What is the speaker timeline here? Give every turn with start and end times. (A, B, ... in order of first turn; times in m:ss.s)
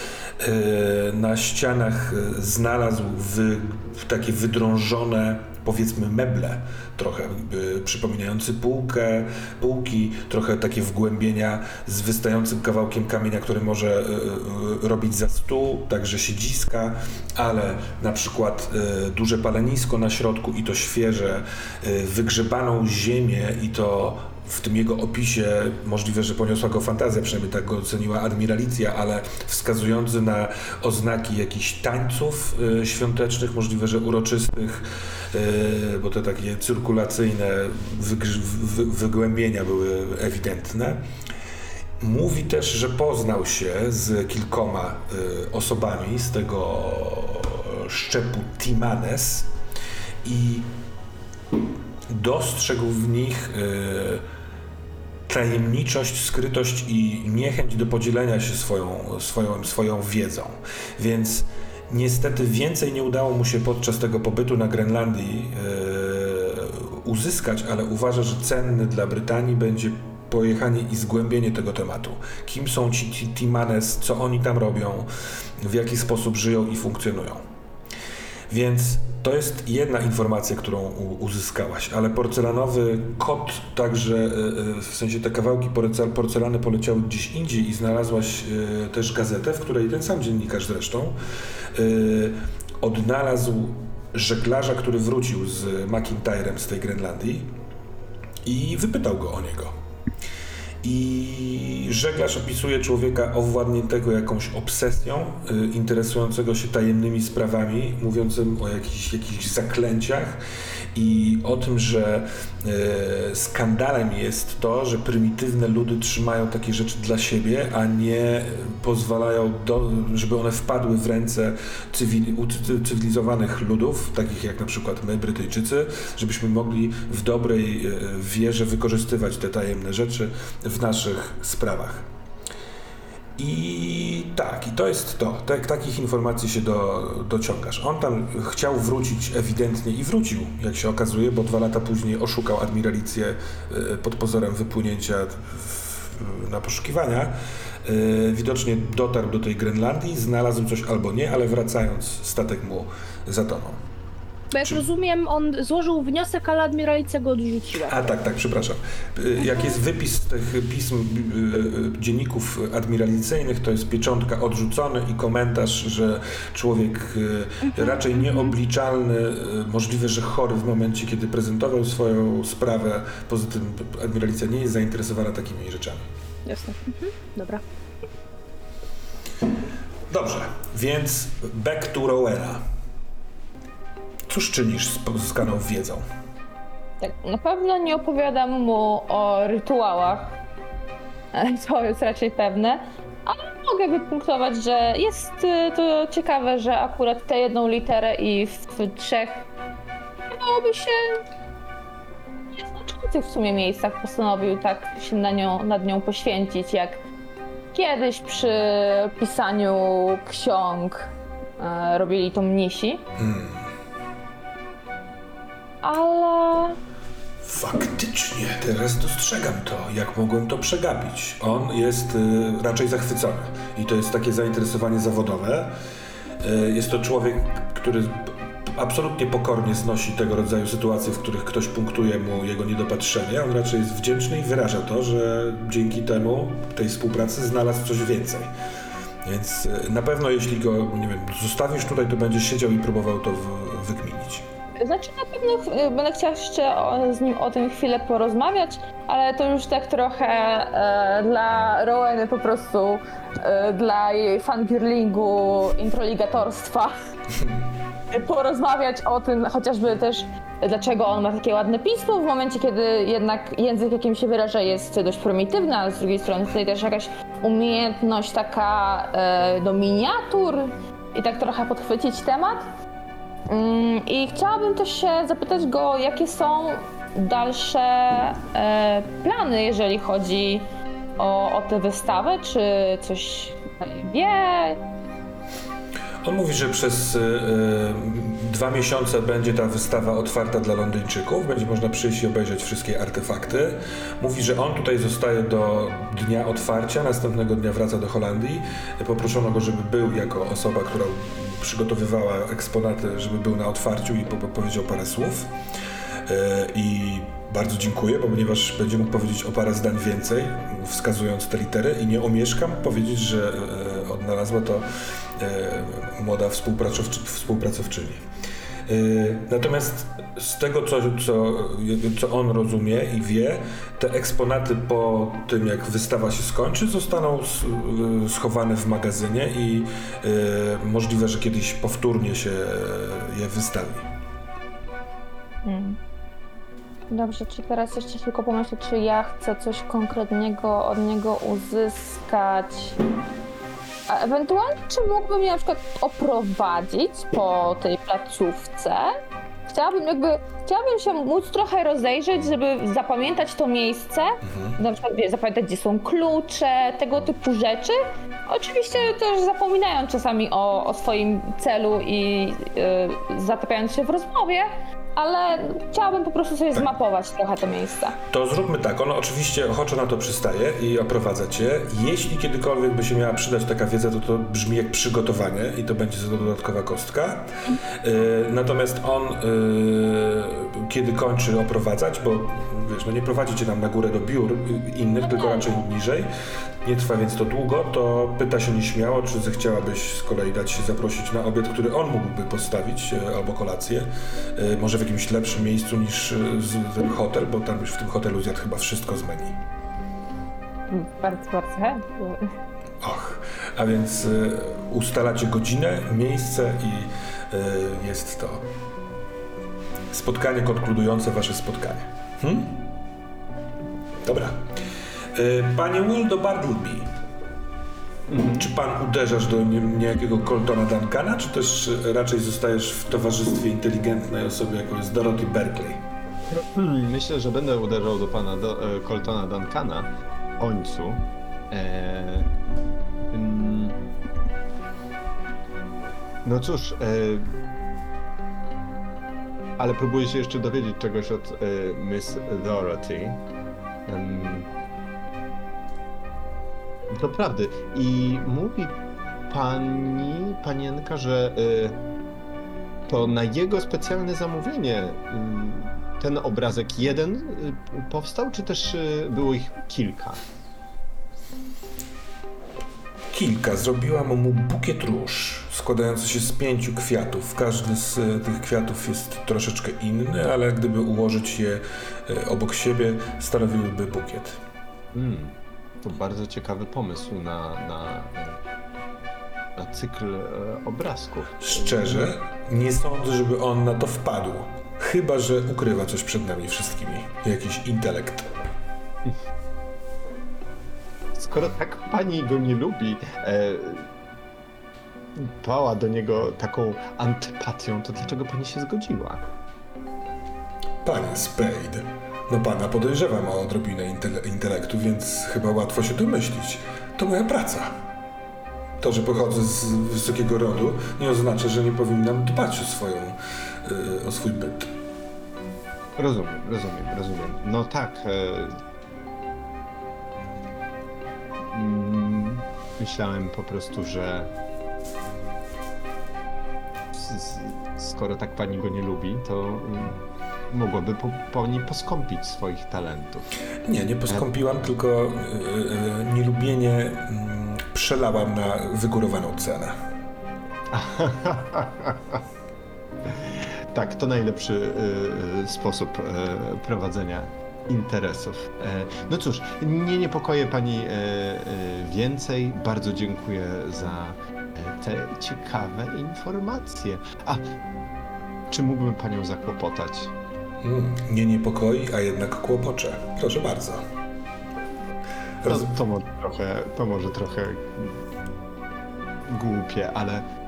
0:00.4-0:41.0 A
0:42.0-0:49.5 A
0:50.2-0:50.7 A
0:52.1-0:54.2 A
0:55.3-1:15.1 A
1:15.6-1:17.4 A
1:18.5-1:31.2 A
1:31.7-1:37.5 A
1:38.4-1:39.7 A
1:40.8-1:50.4 A
1:50.9-2:12.1 A
2:13.4-2:33.8 A
2:34.5-2:38.1 B
2:37.8-2:56.0 A
2:56.4-2:57.6 B
3:00.1-3:02.6 A
3:04.3-3:06.0 A
3:07.0-3:10.3 C
3:11.3-3:19.4 C
3:20.3-3:21.2 C
3:22.5-3:27.0 C
3:27.7-3:33.0 C
3:33.2-3:33.6 A
3:35.8-3:36.8 C
3:37.4-3:45.7 A
3:46.4-3:58.5 A
3:59.2-4:04.4 A
4:04.8-4:16.9 C
4:18.1-4:32.7 C
4:33.5-4:40.7 C
4:41.2-4:44.8 C
4:46.2-5:05.5 A
5:06.2-5:14.8 A
5:15.4-5:18.2 A
5:18.9-5:34.1 A
5:35.6-5:36.0 C
5:37.1-5:43.0 C
5:44.1-5:49.1 C
5:49.7-6:08.2 C
5:54.4-5:54.8 A
6:08.3-6:17.5 A
6:18.0-6:26.3 A
6:25.2-6:25.8 C
6:26.8-6:39.6 A
6:40.9-6:42.5 C
6:43.0-6:48.6 A
6:50.1-6:52.9 A
6:54.2-6:54.7 A
6:55.3-6:57.1 A
6:58.3-6:58.7 D
6:58.6-7:06.0 A
7:06.5-7:12.5 D
7:13.3-7:14.0 D
7:16.4-7:17.4 D
7:19.8-7:23.4 D
7:24.0-7:24.7 D
7:27.1-7:32.0 D
7:33.1-7:40.4 D
7:43.3-7:54.6 A
7:55.1-7:58.6 D
7:59.8-8:02.3 D
8:01.6-8:08.5 A
8:11.4-8:14.1 D
8:15.3-8:19.5 D
8:21.0-8:27.9 A
8:29.0-8:34.9 A
8:36.2-8:38.7 D
8:41.6-8:44.5 D
8:47.1-8:53.5 D
8:53.8-8:59.9 A
9:00.9-9:02.4 D
9:03.2-9:17.7 D
9:18.7-9:20.3 D
9:20.8-9:24.0 A
9:25.6-9:25.9 A
9:25.6-9:28.2 D
9:29.4-9:30.4 D